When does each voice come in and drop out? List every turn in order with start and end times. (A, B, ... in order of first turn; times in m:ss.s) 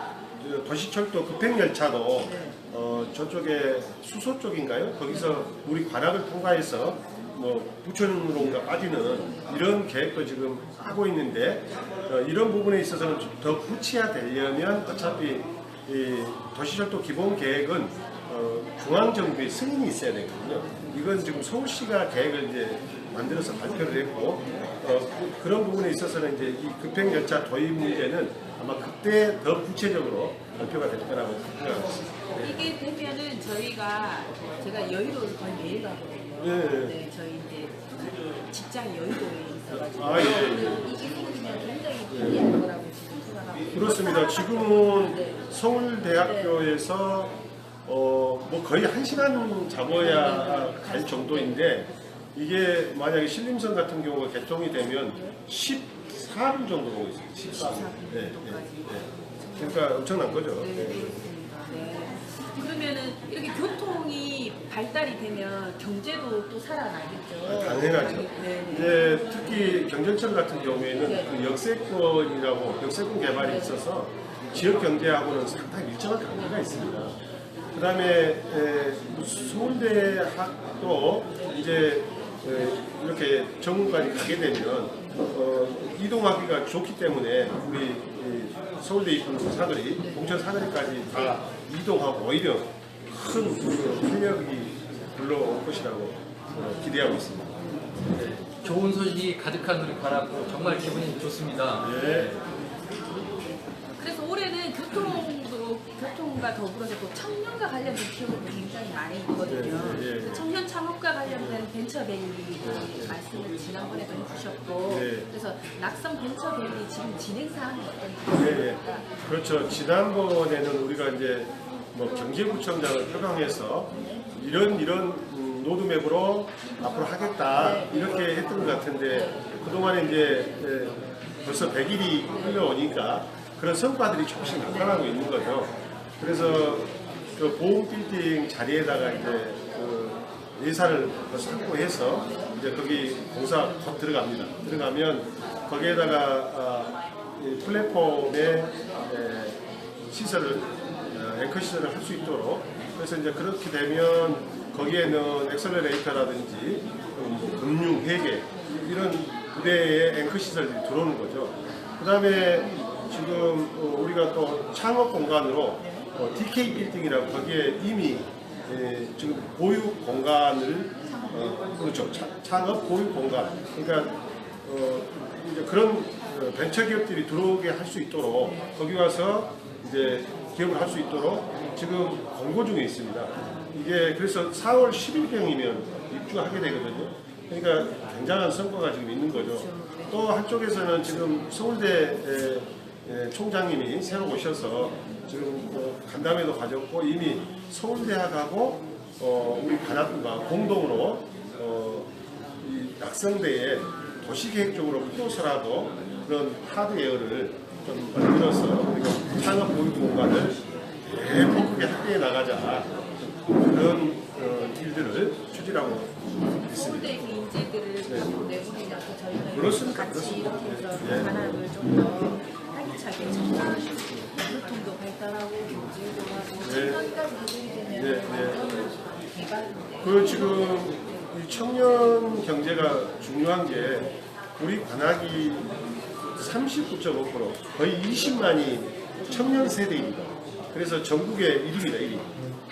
0:00.4-0:32.5 A
0:02.2-0:02.6 B
0:05.1-0:05.4 B
0:32.4-0:45.4 B
0:36.4-0:37.0 A
0:39.9-0:40.9 A
0:42.1-0:42.4 A
0:43.7-0:47.3 A
0:46.2-0:46.6 B
0:47.8-1:01.2 A
0:49.9-0:51.9 B
0:55.1-0:55.4 B
0:57.4-1:09.0 B
1:07.4-1:17.2 A
1:11.0-1:11.3 B
1:13.4-1:13.8 B
1:17.7-1:37.6 A
1:38.1-1:42.3 C
1:41.8-1:42.4 A
1:42.2-1:43.4 B
1:44.0-1:59.1 B
1:49.5-1:50.4 A
1:51.4-1:51.6 A
1:52.6-1:53.2 A
1:54.9-1:55.3 A
1:58.4-3:33.0 A
2:03.9-2:04.2 B
2:07.6-2:08.1 B
2:09.1-2:09.5 B
3:33.6-3:37.1 A
3:36.5-3:50.6 B
3:39.5-3:41.3 A
3:46.6-3:47.1 A
3:47.9-3:48.7 A
3:50.0-3:55.7 A
3:56.3-4:02.3 A